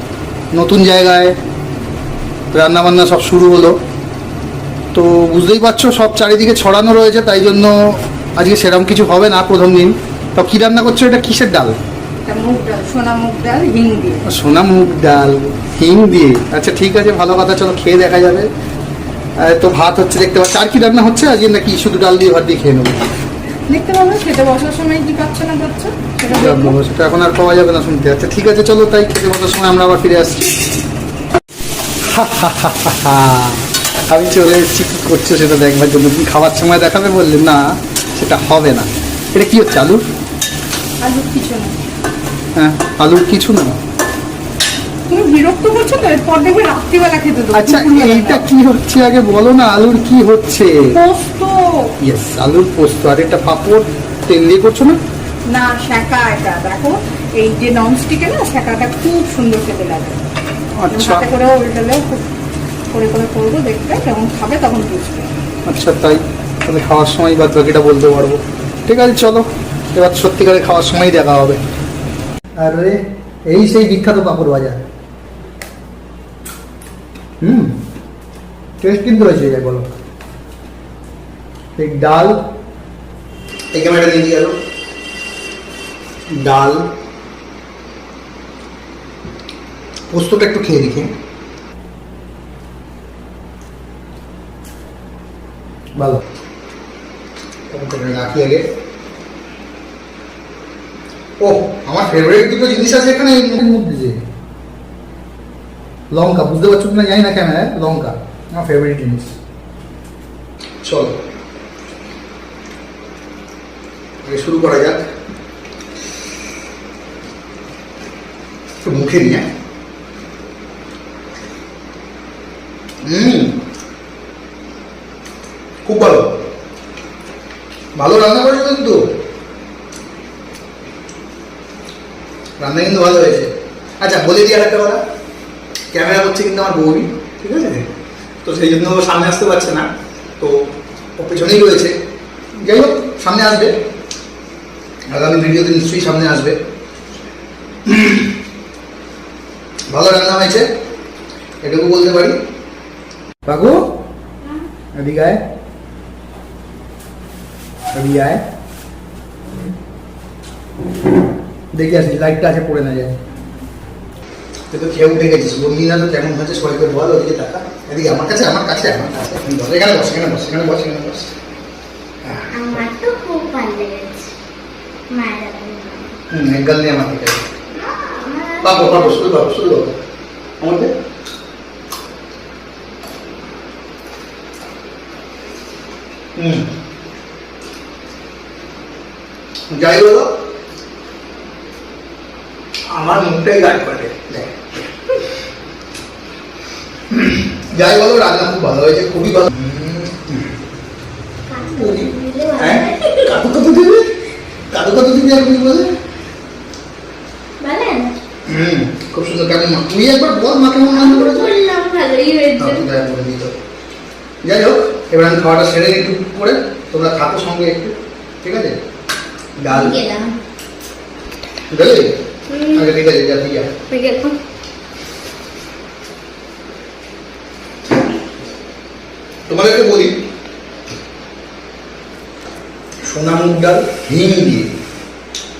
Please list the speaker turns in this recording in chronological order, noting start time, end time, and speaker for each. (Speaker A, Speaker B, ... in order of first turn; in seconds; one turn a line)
Speaker A: 0.5-1.4
Speaker A: 2.5-3.8
Speaker A: 4.9-11.8
Speaker B: 12.2-14.2
Speaker A: 14.2-18.5
Speaker A: 19.4-23.0
Speaker B: 23.7-26.8
Speaker A: 26.3-30.5
Speaker A: 32.0-40.0
Speaker B: 41.0-41.8
Speaker A: 42.5-43.8
Speaker B: 45.1-48.5
Speaker A: 47.5-50.9
Speaker B: 50.9-51.9
Speaker A: 52.0-55.0
Speaker B: 55.5-60.2
Speaker A: 60.8-61.2
Speaker B: 60.9-62.2
Speaker B: 62.9-65.3
Speaker A: 65.7-71.6
Speaker A: 72.6-74.8
Speaker A: 77.4-77.7
Speaker A: 78.8-79.9
Speaker A: 81.8-82.4
Speaker A: 83.7-84.5
Speaker A: 86.3-86.8
Speaker A: 90.1-91.1
Speaker A: 96.0-96.2
Speaker A: 97.7-98.6
Speaker A: 101.4-104.2
Speaker A: 106.1-109.3
Speaker A: 110.8-111.2
Speaker A: 114.2-115.0
Speaker A: 118.8-119.4
Speaker A: 123.0-123.6
Speaker A: 125.8-126.3
Speaker A: 128.0-129.0
Speaker A: 132.6-133.5
Speaker A: 134.0-135.0
Speaker A: 135.9-137.8
Speaker A: 138.4-139.8
Speaker A: 141.2-141.9
Speaker A: 142.6-143.8
Speaker A: 145.1-146.6
Speaker A: 147.8-148.3
Speaker A: 149.9-150.7
Speaker A: 151.6-152.4
Speaker A: 153.4-153.8
Speaker A: 154.9-155.4
Speaker A: 157.9-158.4
Speaker A: 161.7-163.1
Speaker A: 164.7-171.3
Speaker A: 172.2-172.8
Speaker C: 172.5-174.3
Speaker C: 175.1-176.1
Speaker A: 176.3-177.4
Speaker C: 177.7-179.2
Speaker A: 178.6-179.9
Speaker A: 180.6-180.9
Speaker A: 186.3-186.7
Speaker A: 189.7-190.3
Speaker A: 192.9-194.5
Speaker A: 197.1-200.5
Speaker C: 201.5-203.2
Speaker A: 201.7-204.1
Speaker A: 204.7-205.9
Speaker C: 207.6-208.1
Speaker A: 208.4-211.6
Speaker C: 210.9-212.8
Speaker A: 212.6-213.5
Speaker A: 214.4-218.8
Speaker A: 219.6-220.0
Speaker C: 219.7-220.3
Speaker A: 221.7-223.8
Speaker C: 222.5-222.9
Speaker C: 223.9-224.4
Speaker A: 229.5-230.2
Speaker A: 233.0-234.7